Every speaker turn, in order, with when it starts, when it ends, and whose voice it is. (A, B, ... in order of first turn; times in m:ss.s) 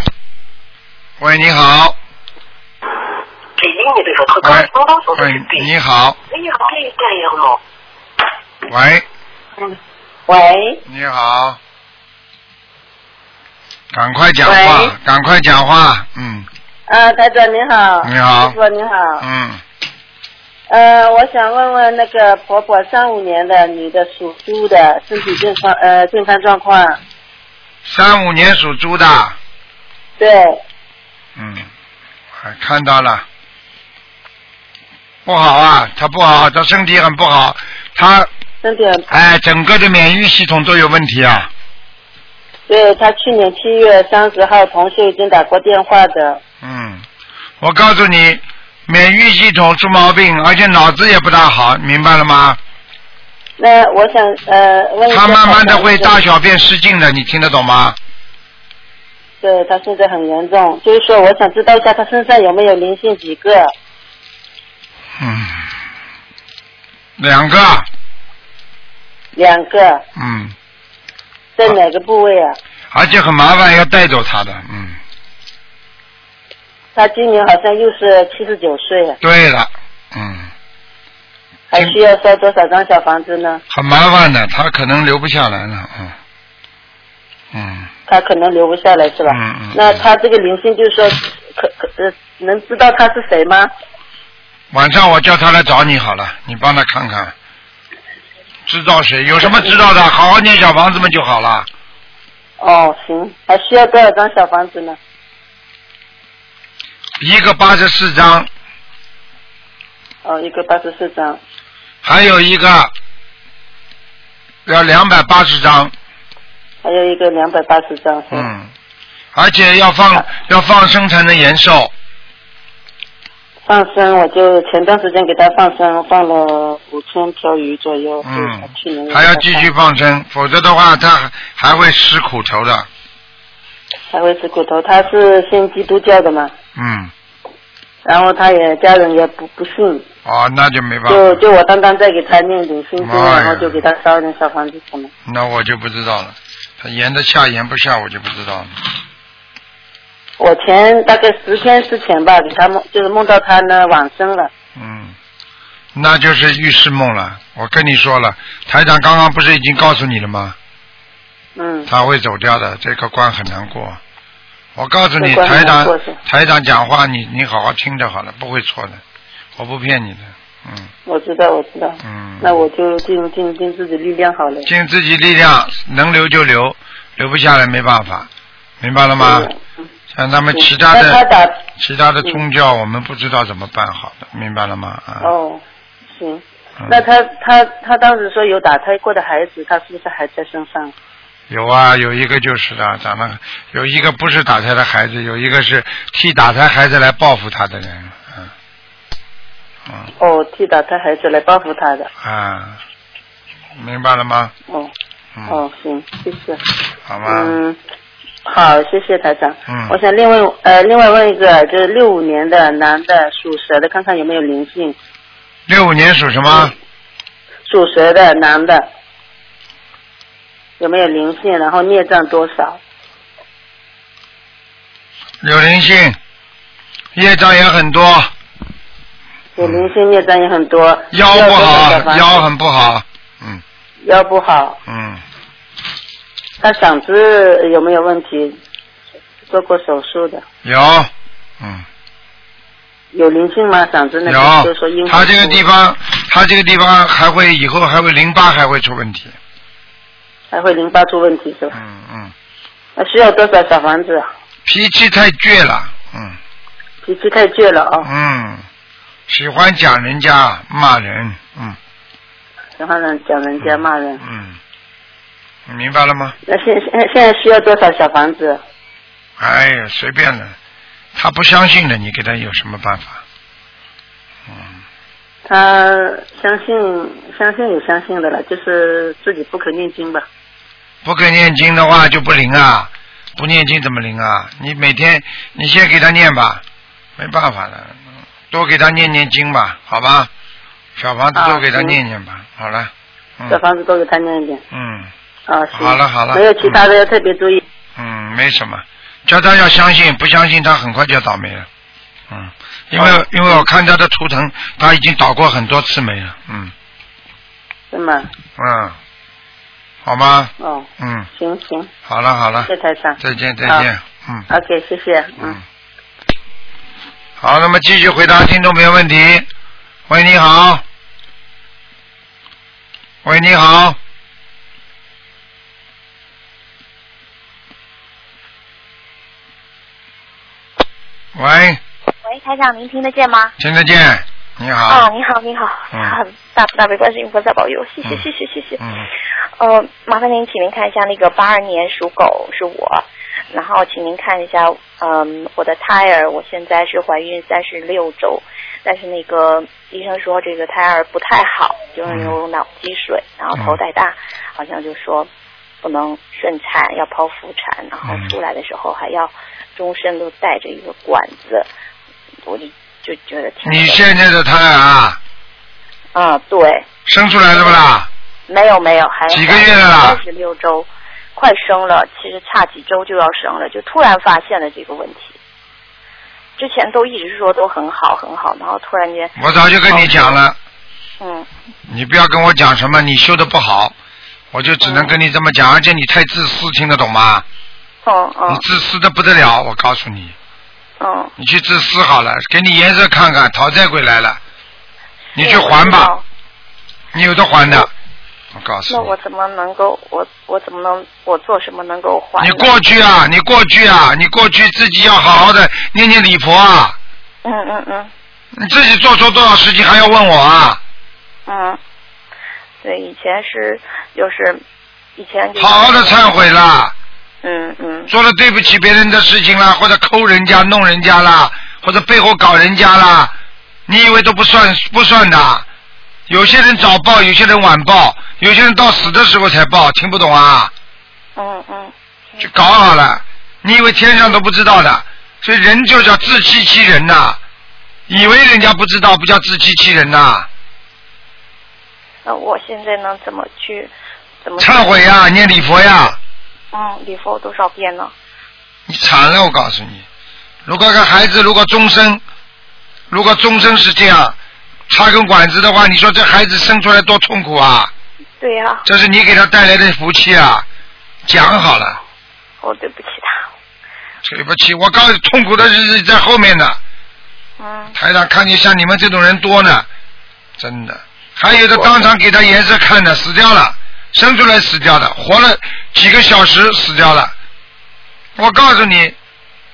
0:01.2-0:02.0 A
0:03.6-0:05.7 B
0:04.4-0:06.2 A
0:06.3-0:07.6 B
0:08.7-0:09.0 A
0:10.3-0:10.8 C
0:10.8-0:11.6 A
0:13.9-0:16.5 A
0:14.4-0:14.9 C
0:16.9-0:19.2 C
0:18.0-0:18.6 A
0:19.2-0:19.6 A
0:20.7-0:27.0 C
0:27.8-0:29.4 A
0:30.2-0:30.6 C
0:31.4-0:31.7 A
0:32.4-0:33.2 A
0:35.2-0:38.3 A
0:38.6-0:39.0 C
0:39.1-0:41.5 A
0:42.7-0:46.4 C
0:46.6-0:47.0 A
0:47.6-0:52.6 A
0:53.6-0:56.2 C
0:55.1-0:58.0 A
0:59.4-1:03.7 C
1:05.2-1:05.7 A
1:07.2-1:07.9 A
1:09.3-1:10.0 C
1:10.2-1:10.5 A
1:11.6-1:12.6 C
1:12.9-1:15.0 A
1:16.9-1:19.2 C
1:19.2-1:20.5 A
1:21.7-1:23.6 C
1:23.7-1:26.1 A
1:27.5-1:27.9 A
1:28.1-1:33.7 C
1:29.3-1:30.0 A
1:34.7-1:37.3 A
1:38.7-1:41.7 A
1:42.6-1:45.0 C
1:47.2-1:48.5 A
1:50.2-1:51.4 C
1:52.0-1:52.9 A
1:54.6-1:55.9 A
1:56.8-1:58.5 C
1:58.3-1:58.7 A
1:59.3-2:01.9 A
2:03.6-2:09.7 C
2:08.2-2:12.9 A
2:14.1-2:16.5 C
2:16.7-2:17.1 A
2:18.0-2:20.0 C
2:20.2-2:21.4 A
2:21.1-2:25.1 C
2:23.0-2:23.8 A
2:25.2-2:28.7 A
2:30.4-2:34.5 C
2:34.8-2:35.1 A
2:35.9-2:40.6 A
2:41.6-2:41.9 C
2:41.9-2:44.0 A
2:44.8-2:49.0 A
2:45.2-2:46.2 C
2:49.6-2:50.9 A
2:51.0-2:54.7 C
2:52.0-2:52.5 A
2:54.6-2:58.3 A
2:58.8-2:59.5 A
2:59.2-2:59.6 C
3:00.1-3:01.2 A
3:00.5-3:01.6 C
3:01.8-3:05.3 A
3:05.2-3:10.9 C
3:11.5-3:18.5 A
3:20.2-3:22.1 C
3:22.2-3:22.8 A
3:23.7-3:24.5 A
3:25.5-3:26.6 C
3:27.1-3:27.6 A
3:27.2-3:27.8 C
3:28.4-3:35.0 C
3:29.7-3:29.9 A
3:35.7-3:36.7 A
3:37.7-3:38.9 C
3:40.8-3:42.8 C
3:45.4-3:46.2 A
3:47.1-3:48.3 A
3:49.6-3:52.4 C
3:49.6-3:49.9 A
3:51.1-3:53.6 A
3:54.0-3:54.8 C
3:54.9-3:55.2 A
3:56.6-3:58.6 C
3:59.5-4:00.4 C
4:00.6-4:01.8 A
4:03.1-4:05.6 C
4:04.3-4:09.3 A
4:10.5-4:11.8 C
4:11.7-4:12.3 A
4:13.0-4:14.3 C
4:14.6-4:16.4 A
4:17.0-4:18.1 C
4:18.0-4:18.6 A
4:19.3-4:21.8 A
4:22.8-4:24.2 C
4:23.6-4:24.6 A
4:25.7-4:26.3 A
4:26.4-4:28.6 C
4:29.4-4:30.5 A
4:31.1-4:33.2 A
4:34.5-4:34.8 A
4:35.4-4:40.3 C
4:41.0-4:46.6 A
4:47.2-4:50.3 A
4:51.0-4:53.6 A
4:51.3-4:52.0 C
4:53.5-4:54.6 C
4:54.7-4:55.1 A
4:55.5-4:57.6 C
4:55.8-4:56.8 A
4:58.0-5:01.7 A
5:02.3-5:06.7 A
5:03.0-5:03.6 C
5:07.9-5:08.3 C
5:08.6-5:09.0 A
5:10.0-5:11.3 A
5:10.6-5:11.9 C
5:12.0-5:12.7 A
5:12.7-5:13.9 C
5:13.2-5:14.5 A
5:14.5-5:15.6 C
5:17.4-5:19.5 A
5:20.1-5:20.8 A
5:23.2-5:24.0 A
5:31.3-5:31.8 A
5:32.2-5:33.5 D
5:33.6-5:35.1 A
5:34.9-5:38.8 D
5:35.9-5:36.2 A
5:38.8-5:39.1 A
5:39.6-5:55.3 D
5:52.1-5:52.4 A
5:55.8-6:01.7 D
5:58.1-5:58.3 A
6:02.4-6:04.0 D
6:03.6-6:05.2 A
6:06.1-6:06.8 D
6:07.0-6:08.1 A
6:07.5-6:07.8 D
6:08.5-6:15.4 D
6:09.3-6:10.2 A
6:16.6-6:19.3 D
6:19.4-6:20.6 A
6:19.9-6:20.4 D
6:21.2-6:21.5 D
6:21.9-6:23.9 A
6:24.5-6:27.4 A
6:24.8-6:25.1 D
6:28.0-6:28.6 D
6:28.5-6:30.3 A
6:31.0-6:31.3 D
6:31.4-6:34.4 A
6:35.4-6:36.1 A
6:35.4-6:36.2 D
6:37.1-6:37.9 A
6:38.5-6:39.1 A
6:38.9-6:42.7 D
6:42.4-6:47.0 A
6:47.4-6:48.1 D
6:48.5-6:50.8 A
6:51.5-6:51.8 D
6:52.8-6:54.6 D
6:55.2-6:56.5 D
6:55.6-6:56.9 A
6:57.4-6:58.1 D
6:58.1-7:03.3 A
7:03.9-7:05.6 A
7:06.3-7:10.7 A
7:11.4-7:12.5 D
7:12.4-7:17.4 A
7:18.1-7:20.5 A
7:22.2-7:23.9 D
7:24.4-7:25.1 D
7:24.6-7:26.2 A
7:26.7-7:28.1 D
7:28.9-7:30.0 A
7:30.6-7:32.2 A
7:33.1-7:34.4 A
7:34.9-7:37.9 A
7:38.4-7:38.8 D
7:38.8-7:40.6 A
7:41.2-7:42.0 A
7:42.6-7:43.4 D
7:44.2-7:46.8 A
7:47.6-7:47.9 D
7:47.9-7:49.8 A
7:50.6-7:57.3 A
7:51.6-7:52.1 D
7:58.4-7:59.2 A